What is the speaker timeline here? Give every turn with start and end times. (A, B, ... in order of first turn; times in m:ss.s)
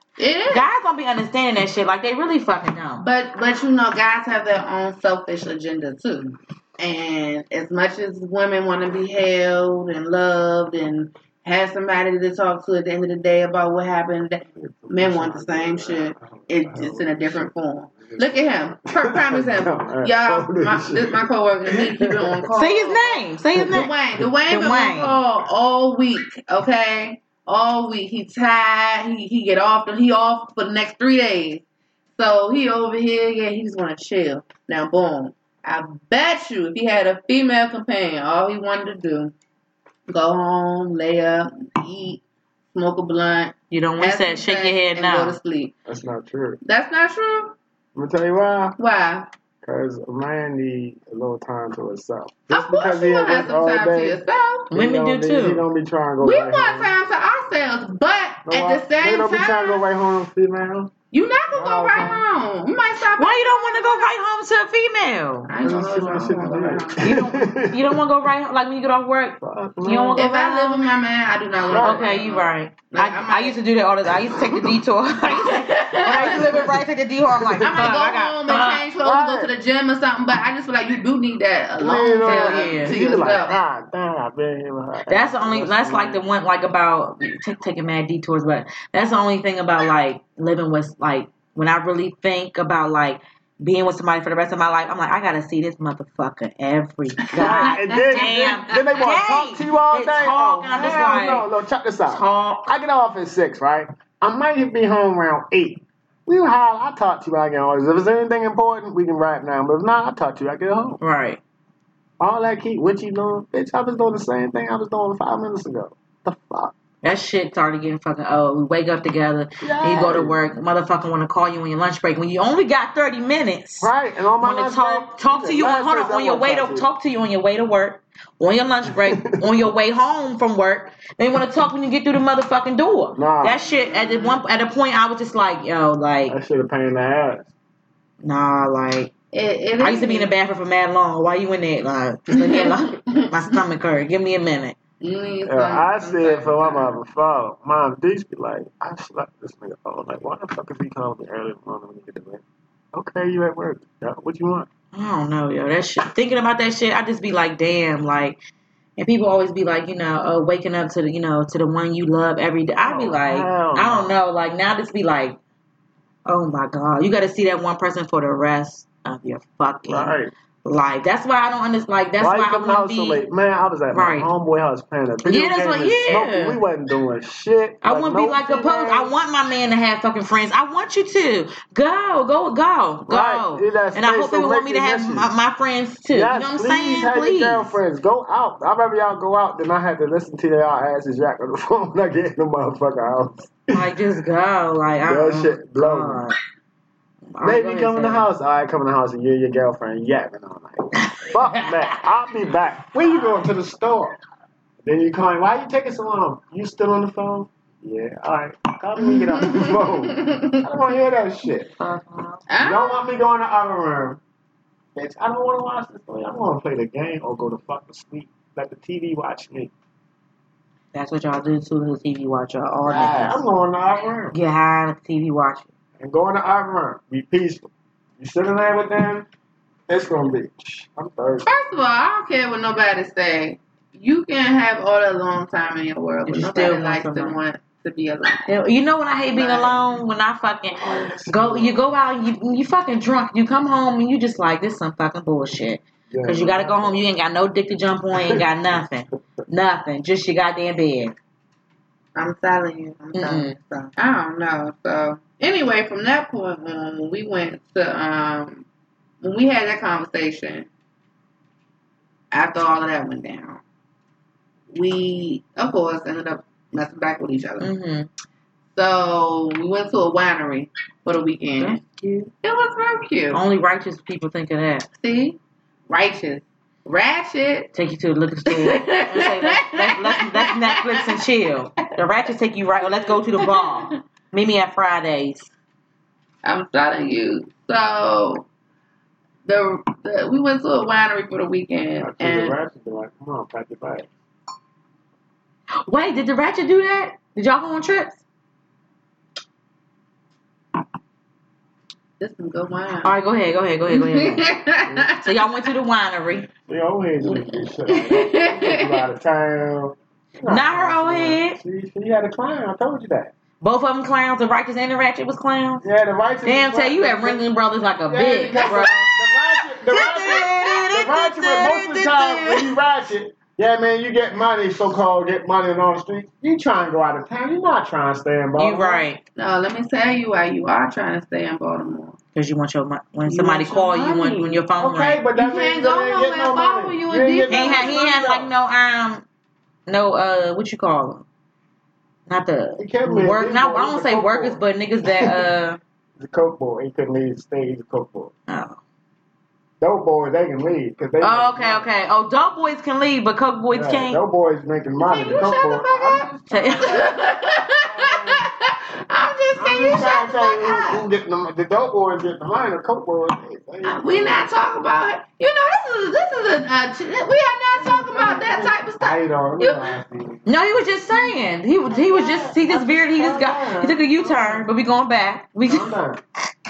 0:00.2-0:00.7 A
0:00.5-0:03.0 B
0:03.0-0:31.6 A
0:14.5-0:17.5 C
0:18.0-0:22.5 C
0:22.5-0:25.2 B
0:32.1-0:39.3 A
0:40.1-0:42.2 A
0:42.7-0:45.7 A
0:43.7-0:45.4 B
0:45.8-0:46.6 C
0:46.6-0:47.6 A
0:47.9-0:48.8 C
0:48.8-0:49.3 A
0:49.6-0:54.2 C
0:52.5-0:54.7 A
0:54.7-0:55.6 B
0:54.7-0:56.9 C
0:56.2-0:59.8 A
0:58.4-1:00.9 C
1:01.1-1:04.1 A
1:01.5-1:02.2 C
1:03.2-1:05.5 B
1:05.4-1:07.1 A
1:05.6-1:08.0 C
1:07.0-1:10.9 B
1:09.4-1:10.2 C
1:10.2-1:13.6 A
1:11.6-1:12.1 C
1:11.7-1:18.8 B
1:14.3-1:14.8 C
1:15.3-1:16.6 A
1:16.2-1:16.6 C
1:17.4-1:17.8 C
1:17.6-1:23.6 A
1:19.0-1:19.5 C
1:21.8-1:26.2 C
1:22.2-1:23.0 B
1:25.1-1:41.4 B
1:37.3-1:38.9 A
1:37.4-1:51.0 C
1:40.8-1:41.1 A
1:42.1-1:42.7 B
1:51.0-1:51.4 B
1:52.2-1:56.7 C
1:57.0-2:16.4 B
1:59.6-2:00.4 C
2:03.8-2:06.9 C
2:08.9-2:09.4 C
2:13.2-2:13.6 C
2:13.6-2:14.4 A
2:16.3-2:17.5 C
2:18.2-2:19.1 B
2:19.3-2:20.3 A
2:19.8-2:24.8 B
2:22.3-2:23.6 A
2:25.0-2:27.0 A
2:25.4-2:32.4 C
2:32.9-2:34.7 C
2:34.9-2:38.4 B
2:39.0-2:45.4 B
2:42.8-2:44.2 C
2:46.2-2:53.2 B
2:49.9-2:50.3 C
2:52.2-2:59.1 C
2:53.9-2:54.3 B
2:55.2-2:56.6 B
2:57.8-3:07.7 B
3:03.1-3:05.3 C
3:06.1-3:13.9 C
3:13.7-3:16.4 B
3:15.1-3:16.3 C
3:17.3-3:18.2 B
3:17.4-3:24.2 C
3:21.0-3:21.7 B
3:24.8-3:31.7 C
3:29.0-3:30.6 A
3:31.8-3:32.4 B
3:32.5-3:33.0 A
3:32.6-3:34.2 C
3:34.9-3:39.7 C
3:40.9-3:43.4 B
3:42.8-3:44.3 C
3:44.3-3:45.7 B
3:46.0-3:49.3 C
3:49.9-3:51.5 C
3:51.4-3:58.5 A
3:56.3-3:57.4 B
3:58.5-4:11.2 B
3:59.3-3:59.8 A
4:00.7-4:01.9 C
4:06.1-4:07.0 C
4:08.1-4:08.4 C
4:12.2-4:18.6 A
4:13.1-4:13.6 B
4:19.2-4:20.7 A
4:22.3-4:23.6 A
4:24.7-4:27.7 A
4:27.6-4:28.1 B
4:28.7-4:31.8 A
4:31.6-4:32.3 B
4:32.3-4:33.4 A
4:33.3-4:34.9 B
4:35.0-4:37.7 A
4:37.7-4:45.5 B
4:38.5-4:41.1 A
4:42.8-4:44.0 A
4:46.4-4:48.4 A
4:49.4-4:52.6 A
4:52.0-4:54.1 C
4:55.8-4:58.2 B
5:02.2-5:03.1 A
5:03.0-5:04.5 B
5:03.9-5:05.5 A
5:05.2-5:06.5 B
5:06.6-5:13.3 C
5:07.2-5:09.0 A
5:10.5-5:11.6 B
5:13.6-5:15.8 B
5:15.8-5:17.4 C
5:16.4-5:19.1 B
5:18.1-5:29.0 C
5:18.4-5:19.1 A
5:19.8-5:22.7 B
5:28.6-5:29.2 B
5:29.3-5:32.2 A
5:32.3-5:35.2 B
5:33.3-5:38.5 C
5:35.4-5:38.0 A
5:37.5-5:39.2 B
5:39.9-5:41.2 B
5:42.3-5:45.8 B
5:42.8-5:44.6 C
5:46.2-5:48.3 C
5:48.5-5:48.8 B
5:49.8-5:51.8 C
5:51.2-5:54.2 B
5:53.7-5:57.1 C
5:55.0-6:01.0 A
5:56.5-5:57.0 B
5:57.8-5:58.4 C
5:59.6-6:04.5 C
6:03.8-6:09.9 A
6:07.8-6:10.5 C
6:10.4-6:16.0 B
6:11.9-6:14.7 C
6:15.7-6:16.2 C